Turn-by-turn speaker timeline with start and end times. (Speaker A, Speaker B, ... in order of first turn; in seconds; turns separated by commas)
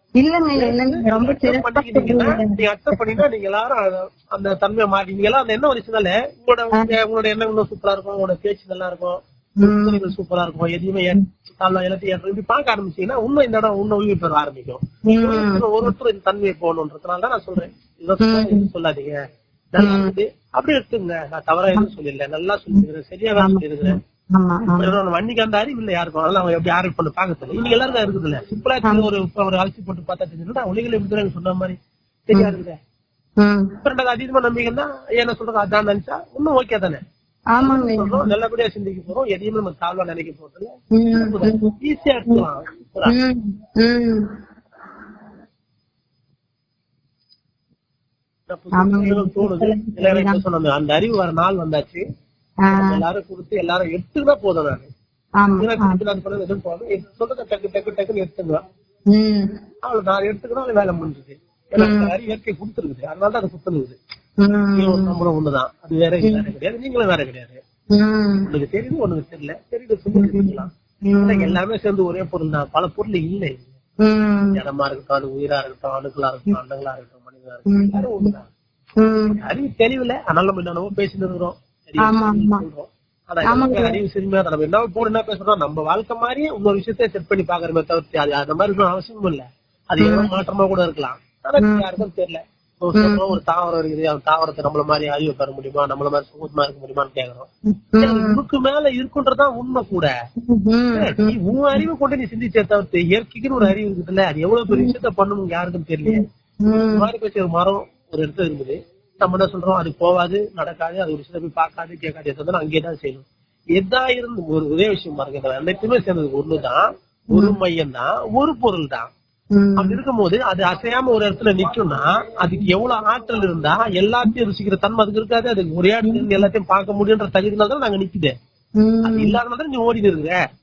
Speaker A: 0.2-3.2, Speaker B: 0.5-19.2, Speaker A: 9.6-10.1, Speaker A: 15.1-15.9, Speaker A: 18.2-18.7, Speaker B: 19.7-24.0, Speaker A: 19.8-20.1, Speaker A: 23.4-24.9, Speaker B: 24.8-31.8, Speaker B: 32.3-32.8, Speaker A: 33.4-33.7, Speaker B: 33.8-37.0, Speaker A: 37.5-38.3, Speaker B: 37.6-43.1, Speaker A: 40.9-41.7, Speaker A: 43.1-44.2, Speaker B: 48.5-52.0, Speaker A: 48.8-50.4, Speaker A: 52.6-53.0, Speaker B: 52.7-54.9, Speaker A: 55.4-56.0, Speaker B: 55.6-58.6, Speaker A: 59.1-59.5, Speaker B: 59.8-64.0, Speaker A: 61.8-62.1, Speaker A: 64.4-65.1, Speaker B: 64.8-67.6, Speaker A: 67.9-68.5, Speaker B: 68.5-70.7, Speaker A: 70.1-71.6, Speaker B: 71.2-73.7, Speaker A: 74.0-74.6, Speaker B: 74.5-78.5, Speaker A: 77.7-78.3, Speaker A: 79.0-79.4, Speaker B: 79.4-97.5, Speaker A: 82.0-82.6, Speaker A: 83.5-84.0, Speaker A: 90.0-90.3, Speaker A: 91.6-91.9, Speaker A: 93.0-93.3, Speaker A: 97.7-98.4, Speaker B: 98.0-100.1, Speaker A: 100.4-101.8, Speaker B: 101.0-106.2, Speaker A: 106.1-107.1, Speaker B: 106.9-113.2, Speaker B: 113.8-119.1, Speaker A: 119.5-120.0, Speaker B: 119.8-128.3, Speaker A: 126.1-126.4, Speaker A: 128.8-129.4, Speaker B: 129.0-130.3